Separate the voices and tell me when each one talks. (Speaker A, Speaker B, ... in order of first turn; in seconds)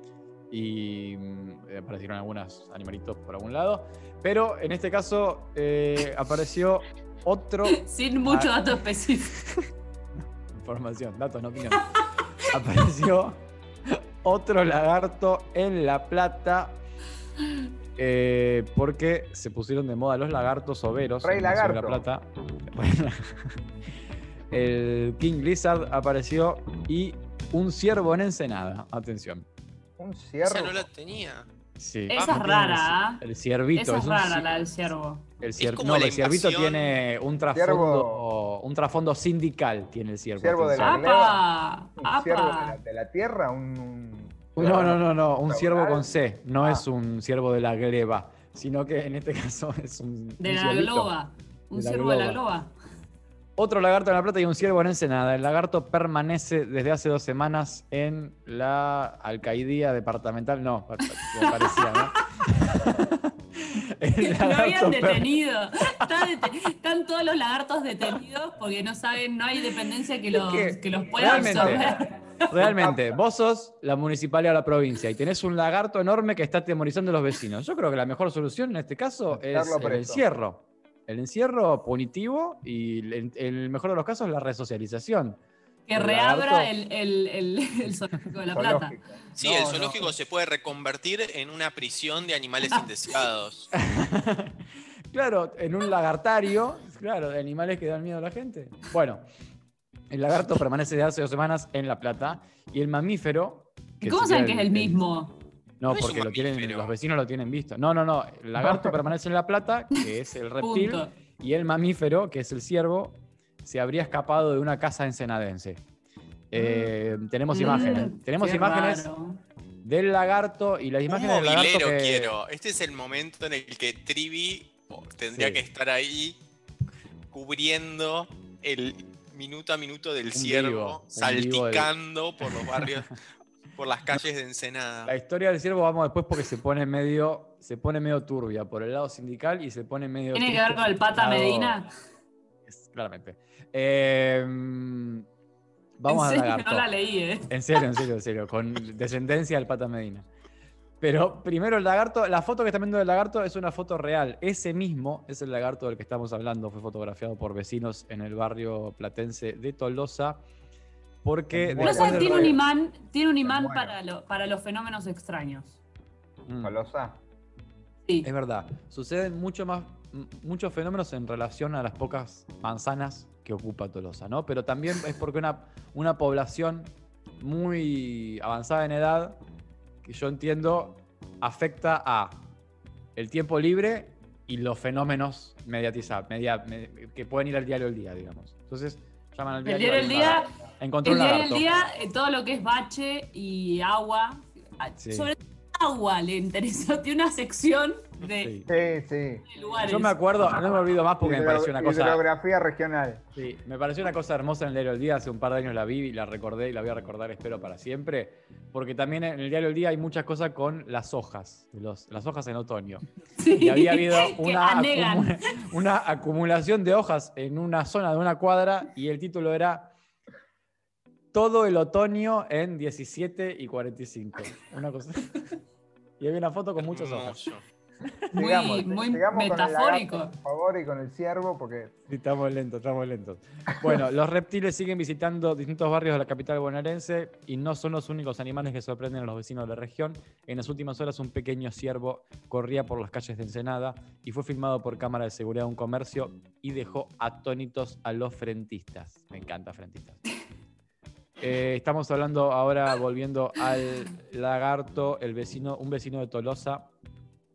Speaker A: 0.5-8.5, 10.5-16.8, 18.0-23.5, 24.5-29.5, 31.8-34.6, 35.4-41.0, 44.6-51.1, 51.7-52.4, 53.6-65.3, 65.9-66.3, 70.3-72.0, 72.5-85.4, 86.0-86.7, 93.7-99.2, 100.1-105.0, 105.8-115.8, 116.5-119.1, 119.8-122.4, 125.3-125.7, 130.3-131.9, 132.4-132.9, 135.1-141.8, 142.7-145.3, 146.0-146.9, 147.5-150.3, 151.0-160.4, 161.2-162.6, 166.5-166.8, 168.2-179.4, 180.0-182.4, 183.2-191.7, 195.0-195.3, 198.3-198.7, 199.8-202.2, 203.4-219.9, 221.3-225.5, 226.2-227.4, 232.1-250.2, 251.4-256.9
Speaker B: 7.7-9.3, 32.1-33.2, 33.8-35.3, 40.8-42.8, 50.4-52.7, 61.2-62.9, 64.2-72.5, 85.9-89.0, 104.0-105.3, 110.6-111.1, 116.5-116.9, 117.5-119.4, 140.3-141.9, 146.1-147.9, 161.8-165.8, 189.7-190.5, 191.0-198.6, 199.5-200.2, 213.4-215.7, 228.3-230.3
Speaker C: 21.2-22.0, 30.0-30.9, 37.5-38.2, 40.4-41.4, 42.0-46.1, 46.6-46.9, 71.1-72.0, 72.6-73.2, 79.3-80.2, 88.5-90.1, 161.5-162.6, 163.4-164.0, 166.6-167.2, 198.7-199.5, 201.2-203.3, 228.3-231.9
Speaker D: 30.4-31.5, 32.1-32.4, 35.6-37.0, 89.4-93.7, 105.9-106.9, 121.1-126.4, 127.3-133.2, 133.8-135.1, 226.8-227.6